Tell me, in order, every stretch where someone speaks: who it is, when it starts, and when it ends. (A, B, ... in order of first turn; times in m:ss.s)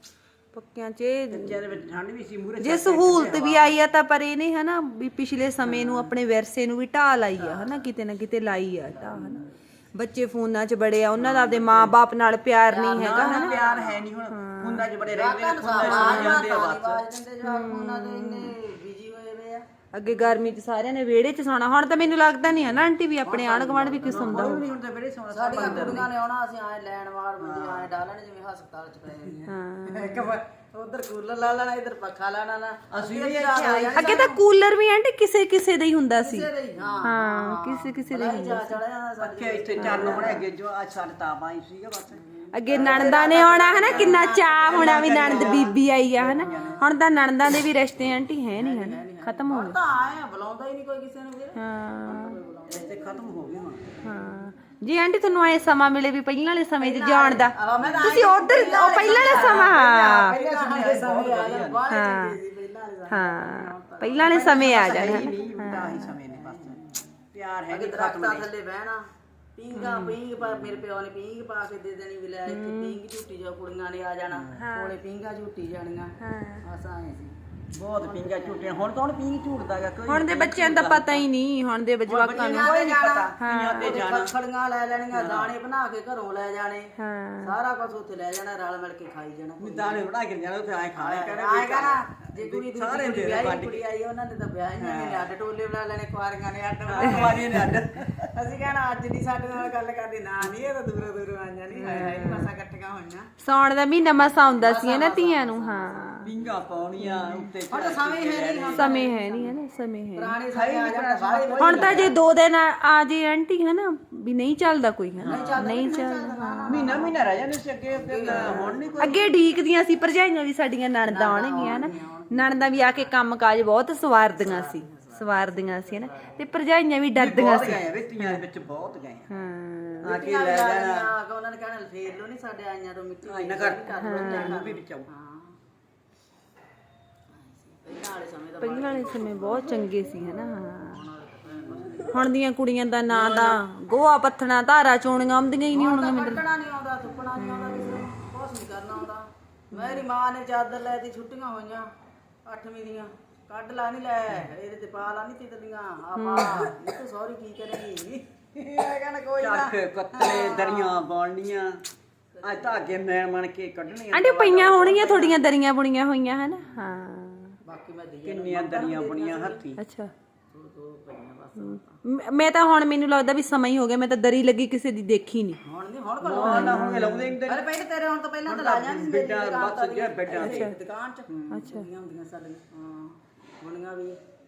0:00.5-0:01.6 A
0:01.3-0:03.8 B
0:02.6-0:13.5 A
0:05.6-0:06.1 B
0:07.4-0:07.9 C
0:08.8-0:09.5 C
0:11.2-0:12.0 B
0:12.7-0:14.1 C
0:12.9-0:17.0 B
0:14.3-0:14.9 A
0:15.1-0:19.6 C
0:15.8-0:16.5 A
0:17.4-0:18.5 A
0:19.9-0:24.6 A
0:23.3-0:24.6 C
0:24.0-0:26.1 B
0:25.3-0:34.4 C
0:27.4-0:27.9 B
0:29.5-0:30.3 A
0:32.9-0:34.2 B
0:34.0-0:36.5 A
0:36.2-0:40.4 C
0:37.0-0:38.8 A
0:39.2-0:46.9 B
0:39.8-0:40.4 A
0:42.5-0:49.8 A
0:42.7-0:46.9 C
0:48.6-0:53.7 C
0:51.6-0:52.3 A
0:52.7-0:53.9 B
0:54.0-1:00.4 A
0:56.8-1:05.4 C
0:58.9-1:01.8 B
1:01.9-1:02.4 A
1:03.1-1:06.1 A
1:04.5-1:06.8 B
1:06.3-1:07.0 C
1:07.3-1:08.5 B
1:07.7-1:09.0 C
1:09.6-1:16.2 C
1:09.7-1:10.2 A
1:12.5-1:13.0 A
1:14.3-1:14.7 B
1:14.6-1:14.9 A
1:16.2-1:16.6 A
1:16.7-1:17.3 C
1:17.7-1:21.3 B
1:18.0-1:18.8 C
1:20.1-1:22.8 A
1:22.1-1:24.3 B
1:22.2-1:26.9 C
1:23.4-1:24.0 A
1:25.1-1:25.5 B
1:27.0-1:27.5 A
1:27.4-1:30.1 C
1:29.6-1:33.8 B
1:31.0-1:37.8 C
1:34.8-1:35.2 B
1:36.9-1:38.3 B
1:38.3-1:43.3 C
1:41.8-1:42.3 B
1:43.4-1:46.3 A
1:44.6-1:46.5 C
1:46.2-1:48.9 B
1:47.0-1:47.5 A
1:47.7-1:49.6 C
1:48.7-1:50.3 A
1:50.2-1:52.2 C
1:50.5-1:52.1 B
1:51.6-1:57.1 A
1:55.2-1:55.8 B
1:55.2-1:59.6 C
1:56.7-1:59.3 B
1:58.3-2:08.4 A
2:01.1-2:03.1 C
2:04.4-2:06.4 C
2:07.2-2:09.3 B
2:09.3-2:10.1 A
2:10.0-2:15.6 C
2:10.0-2:11.1 B
2:13.2-2:15.1 B
2:14.0-2:14.5 A
2:17.4-2:19.8 C
2:18.6-2:21.0 A
2:20.8-2:22.2 C
2:22.0-2:26.4 A
2:23.1-2:23.6 C
2:25.7-2:31.9 C
2:27.4-2:27.9 A
2:29.7-2:30.0 A
2:32.5-2:41.0 C
2:36.2-2:36.7 A
2:39.4-2:41.8 B
2:42.4-2:42.9 C
2:42.4-2:45.3 B
2:44.1-2:47.5 A
2:44.9-2:45.3 C
2:47.6-2:49.6 C
2:48.2-2:49.8 B
2:49.8-2:50.1 A
2:50.5-2:52.0 C
2:51.6-2:55.6 A
2:55.6-3:04.2 C
2:56.2-2:57.6 B
2:56.4-2:57.3 A
2:58.5-3:00.7 B
3:00.3-3:00.7 A
3:01.5-3:01.9 A